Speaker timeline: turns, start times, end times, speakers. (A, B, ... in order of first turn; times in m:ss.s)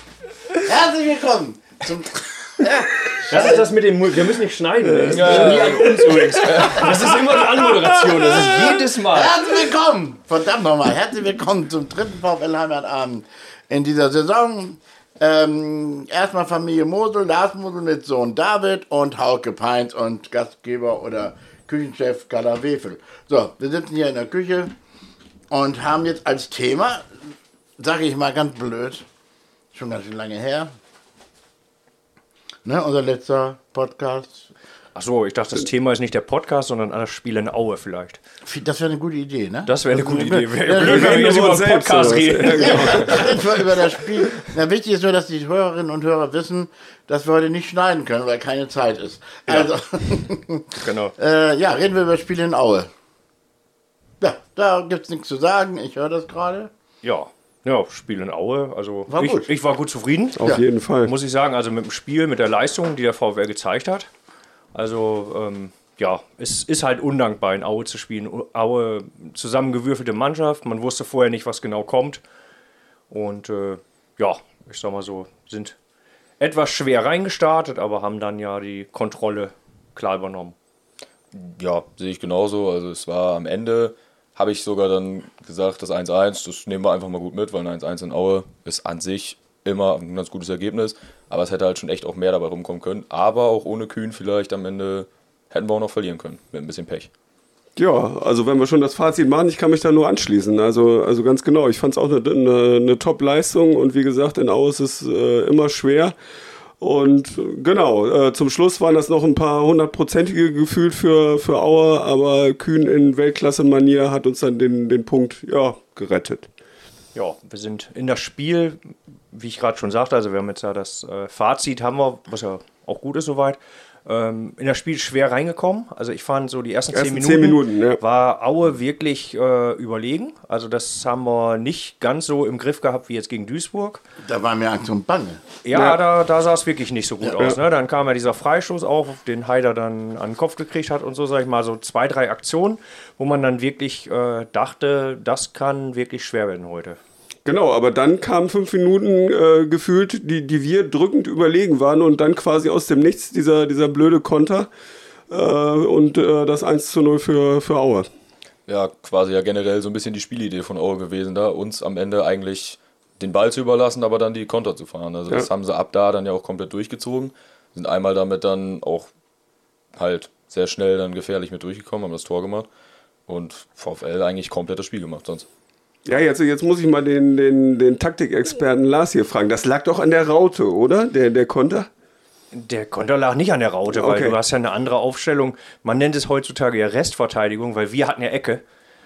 0:00.5-0:03.7 A
0:03.3-0:09.4 B
0:04.9-0:05.3 C
0:05.1-0:07.0 A
0:05.1-0:07.0 D
0:09.1-0:24.7 A
0:25.5-0:27.1 A
0:27.8-0:29.0 A
0:29.7-0:30.7 A
0:32.6-0:34.5 A
0:34.9-0:38.2 B
0:38.4-0:41.3 A
0:39.6-0:43.4 B
0:40.7-0:43.5 C
0:42.6-0:52.9 A
0:50.8-0:51.1 B
0:54.2-0:56.7 A
0:57.0-1:00.4 B
0:59.1-0:59.5 A
1:00.4-1:01.1 C
1:01.0-1:04.1 B
1:04.7-1:12.2 B
1:13.1-1:15.8 B
1:16.4-1:20.6 B
1:21.3-1:37.1 D
1:37.8-1:46.2 C
1:46.8-1:56.5 C
1:57.1-2:14.0 B
2:06.9-2:08.0 C
2:14.2-2:15.4 A
2:15.6-2:27.0 B
2:15.7-2:16.0 C
2:27.4-2:34.7 C
2:35.3-2:38.1 C
2:38.7-2:49.1 D
2:49.9-2:52.7 D
2:53.3-2:55.4 D
2:56.0-3:01.9 C
3:02.5-3:08.6 B
3:03.9-3:04.4 C